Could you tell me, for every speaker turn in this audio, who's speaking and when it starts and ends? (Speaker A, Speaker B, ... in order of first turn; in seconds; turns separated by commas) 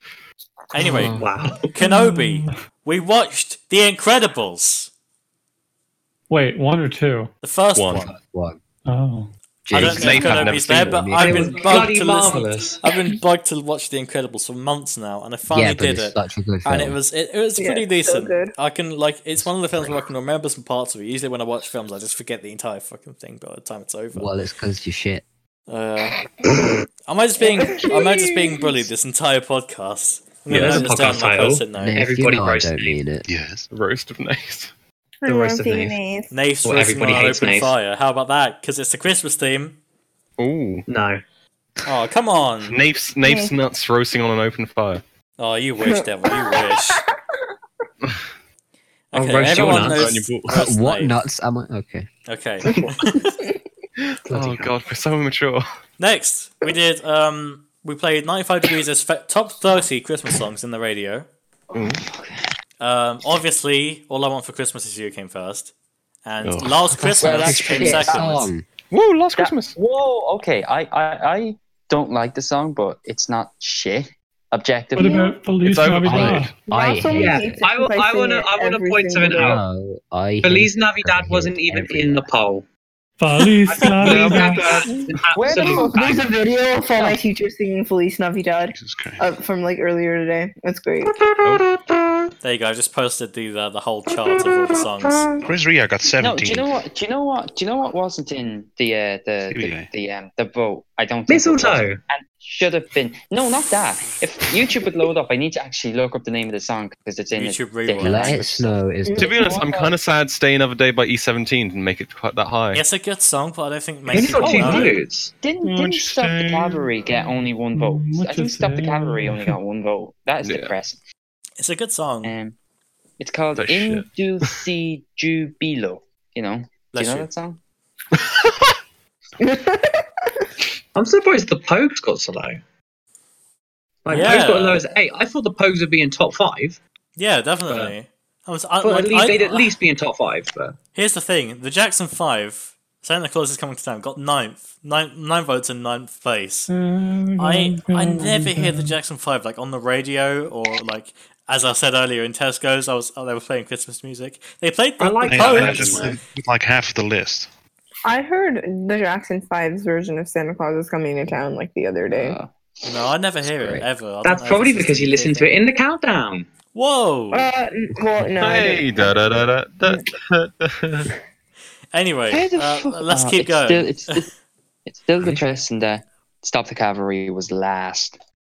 Speaker A: 0.7-4.9, Speaker B: 1.1-1.7, Speaker C: 1.8-2.6, Speaker C: 6.3-7.3, Speaker A: 7.4-8.1, Speaker D: 7.8-8.1, Speaker E: 8.0-8.6, Speaker C: 8.9-9.3, Speaker E: 9.6-11.6, Speaker A: 9.7-24.3, Speaker D: 9.7-11.0, Speaker B: 11.2-12.8, Speaker E: 15.5-17.0, Speaker F: 17.6-18.5, Speaker E: 19.4-20.0, Speaker E: 24.1-25.2, Speaker A: 25.7-26.2, Speaker A: 27.1-32.1, Speaker F: 27.4-28.8, Speaker D: 30.5-30.9, Speaker B: 30.5-33.0, Speaker E: 31.7-33.2, Speaker G: 33.2-33.7, Speaker D: 33.7-34.7, Speaker F: 35.2-36.3, Speaker B: 35.2-36.0, Speaker A: 36.3-39.8, Speaker B: 36.6-37.7, Speaker D: 40.4-40.8, Speaker B: 40.9-41.2, Speaker A: 41.8-42.8, Speaker D: 42.7-45.0, Speaker F: 43.2-43.5, Speaker A: 45.4-47.0, Speaker F: 45.8-47.0, Speaker A: 49.1-51.2, Speaker B: 49.1-50.1, Speaker D: 49.5-50.6, Speaker E: 50.5-52.1, Speaker A: 52.3-53.4, Speaker D: 54.3-55.6, Speaker A: 56.0-61.3, Speaker D: 61.7-62.0, Speaker H: 61.7-62.5, Speaker A: 62.8-65.7, Speaker A: 66.2-68.5, Speaker D: 66.4-67.0, Speaker E: 67.1-68.7, Speaker H: 67.2-68.4, Speaker D: 68.9-69.8, Speaker H: 69.3-75.2, Speaker C: 74.9-76.5, Speaker F: 75.0-75.3, Speaker D: 75.6-76.5, Speaker E: 76.0-77.6, Speaker F: 76.7-79.6, Speaker B: 77.1-79.6, Speaker E: 79.3-82.3, Speaker B: 80.4-82.6, Speaker C: 83.2-84.7, Speaker B: 83.7-86.3, Speaker D: 84.0-84.8, Speaker F: 84.9-91.3, Speaker H: 85.3-86.0, Speaker G: 88.7-89.2, Speaker D: 91.4-91.8, Speaker A: 92.4-95.3, Speaker G: 95.4-96.8, Speaker H: 96.2-108.7, Speaker G: 99.5-99.9, Speaker B: 101.3-102.0, Speaker A: 107.3-108.5, Speaker E: 108.0-109.4, Speaker F: 109.0-109.9, Speaker D: 109.2-112.8, Speaker A: 112.7-115.0, Speaker B: 114.1-115.3, Speaker H: 114.4-114.8, Speaker H: 115.4-121.0, Speaker C: 115.6-116.6, Speaker D: 115.8-116.8, Speaker C: 117.7-119.6, Speaker D: 120.4-120.7, Speaker A: 121.6-122.3, Speaker H: 122.2-122.5, Speaker H: 123.2-127.6, Speaker D: 123.5-124.5, Speaker A: 126.9-127.3, Speaker F: 129.4-130.0, Speaker B: 130.9-132.6, Speaker B: 134.0-136.8, Speaker A: 134.1-134.8, Speaker A: 137.2-139.7, Speaker B: 137.7-137.9, Speaker B: 138.8-140.8, Speaker A: 140.9-146.7, Speaker C: 146.7-148.9, Speaker A: 147.4-156.2, Speaker B: 155.0-156.2, Speaker G: 155.3-157.5, Speaker F: 158.0-162.4, Speaker H: 162.1-162.5, Speaker A: 162.8-165.5, Speaker E: 163.4-163.8, Speaker B: 164.2-166.5, Speaker A: 166.7-167.5, Speaker F: 167.3-170.0, Speaker D: 168.4-171.1, Speaker A: 171.9-174.2, Speaker H: 172.3-174.3, Speaker H: 174.8-178.2